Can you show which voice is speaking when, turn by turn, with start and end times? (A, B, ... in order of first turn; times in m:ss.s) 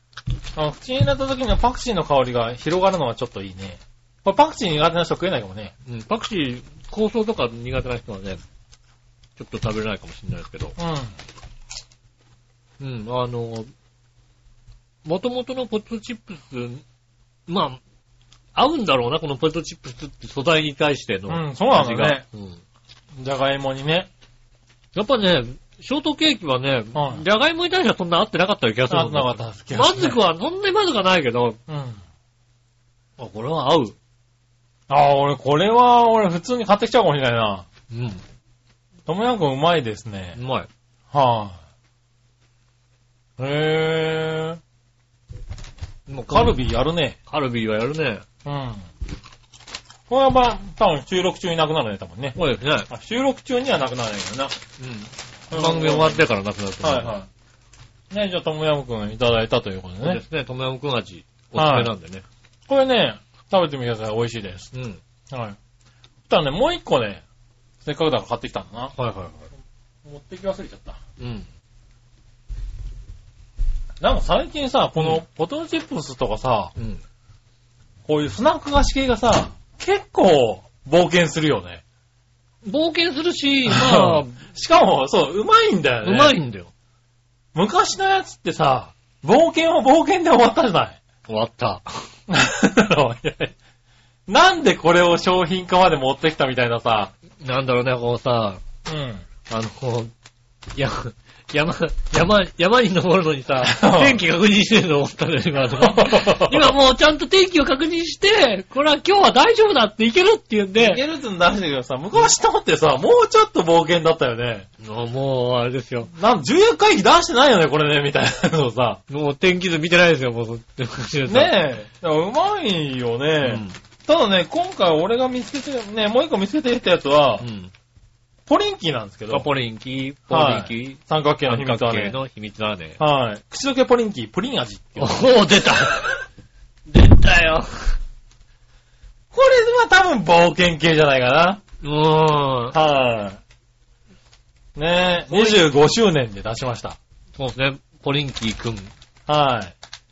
0:00.5-0:05.7 A
0:05.8-0:08.4 B
0:09.4-0:10.8 B
0:10.8-0:11.2 A
0:12.8-0:13.7 B
0:15.0-0:16.8 B
0:17.5-0:17.8 B
0:18.5-0:22.6 B
0:21.3-0:22.2 A
0:23.2-0:24.1 A
0:24.9-0:31.6 B
0:26.9-0:27.2 A
0:28.9-0:30.2 A
0:31.7-0:32.0 A
0:33.2-0:33.9 B
0:34.9-0:37.6 A
0:37.9-0:38.2 B
0:39.1-0:40.4 A
0:40.4-0:40.7 B
0:41.1-0:41.6 A
0:43.4-0:44.6 A
0:46.1-0:46.6 B
0:46.3-0:47.2 A
0:47.3-0:48.2 B
0:48.4-0:48.9 A
0:50.1-0:52.4 A
0:52.3-0:52.9 B
0:52.9-0:54.5 A
0:54.8-0:57.2 B
0:55.5-0:56.2 A
0:56.8-0:57.3 A
0:58.1-1:00.2 A
1:00.0-1:02.2 B
1:01.5-1:01.9 A
1:02.7-1:04.7 A
1:04.7-1:05.0 B
1:05.3-1:05.6 A
1:06.3-1:07.2 A
1:07.8-1:08.9 A
1:09.0-1:09.5 B
1:10.0-1:11.0 A
1:11.2-1:11.5 B
1:14.0-1:16.7 A
1:15.0-1:15.2 B
1:16.8-1:17.0 B
1:18.0-1:21.8 A
1:22.6-1:24.4 B
1:23.7-1:26.4 A
1:26.0-1:26.7 B
1:27.5-1:31.0 A
1:31.3-1:32.1 B
1:32.3-1:33.5 A
1:34.3-1:37.1 A
1:37.4-1:38.6 B
1:38.8-1:39.2 A
1:39.5-1:40.1 B
1:40.7-1:51.0 B
1:43.6-1:44.2 A
1:45.8-1:46.7 A
1:50.8-1:54.7 A
1:54.8-1:56.1 B
1:56.1-1:59.0 A
1:59.1-2:01.6 B
2:01.3-2:07.4 A
2:03.4-2:03.8 B
2:07.4-2:07.7 B
2:08.5-2:09.5 A
2:09.3-2:13.0 B
2:10.3-2:12.2 A
2:13.0-2:15.2 A
2:15.0-2:16.2 B
2:16.9-2:18.0 B
2:19.3-2:21.6 A
2:21.8-2:22.8 B
2:22.7-2:23.4 A
2:24.7-2:27.0 A
2:25.3-2:25.6 B
2:27.4-2:28.9 B
2:29.3-2:29.7 A